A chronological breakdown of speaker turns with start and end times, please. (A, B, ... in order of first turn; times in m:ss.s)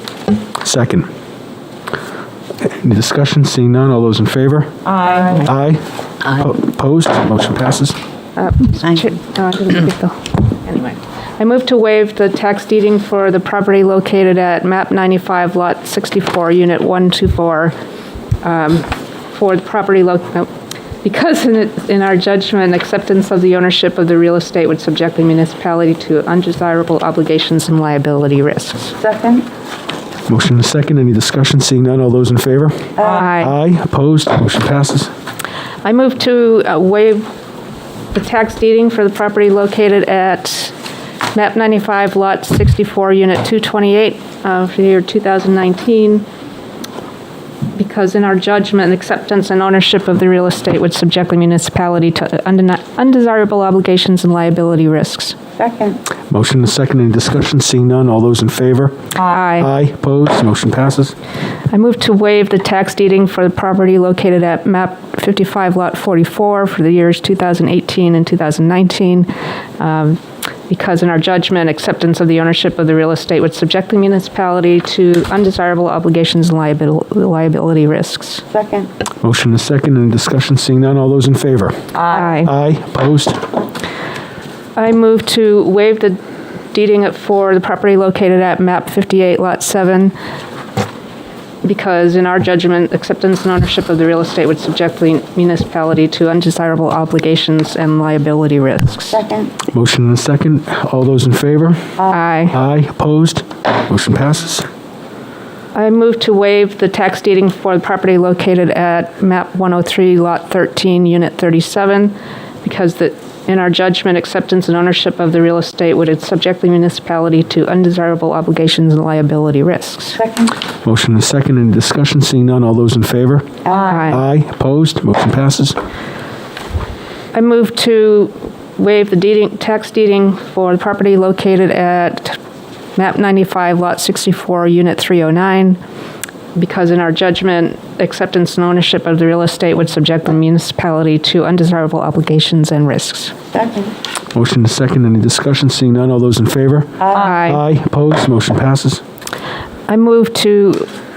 0:00.6-0:01.1 A
0:02.6-0:04.8 A
0:05.0-0:05.4 B
0:05.4-0:08.0 A
0:08.4-0:17.7 C
0:18.4-0:20.5 C
0:21.0-0:28.9 C
0:29.0-0:29.5 B
0:30.3-0:35.1 A
0:33.0-0:33.2 B
0:33.0-0:33.5 C
0:35.8-0:37.3 C
0:38.1-0:40.7 C
0:41.3-0:46.2 C
0:47.7-0:55.4 C
0:55.6-0:56.0 B
0:56.3-1:01.1 A
0:59.2-0:59.7 C
1:01.7-1:18.4 C
1:18.5-1:18.9 B
1:19.2-1:23.4 A
1:22.1-1:22.5 C
1:24.8-1:26.2 C
1:26.7-1:30.1 C
1:31.6-1:39.2 C
1:39.1-1:39.5 B
1:39.7-1:41.9 A
1:42.1-1:42.6 C
1:42.5-1:44.7 A
1:45.7-2:00.2 C
2:00.1-2:00.6 B
2:00.8-2:05.8 A
2:03.6-2:03.9 B
2:03.9-2:04.2 C
2:07.3-2:12.4 C
2:13.0-2:15.8 C
2:16.5-2:23.3 C
2:23.5-2:23.9 B
2:24.3-2:29.0 A
2:27.0-2:27.3 B
2:27.1-2:27.6 C
2:29.9-2:30.9 C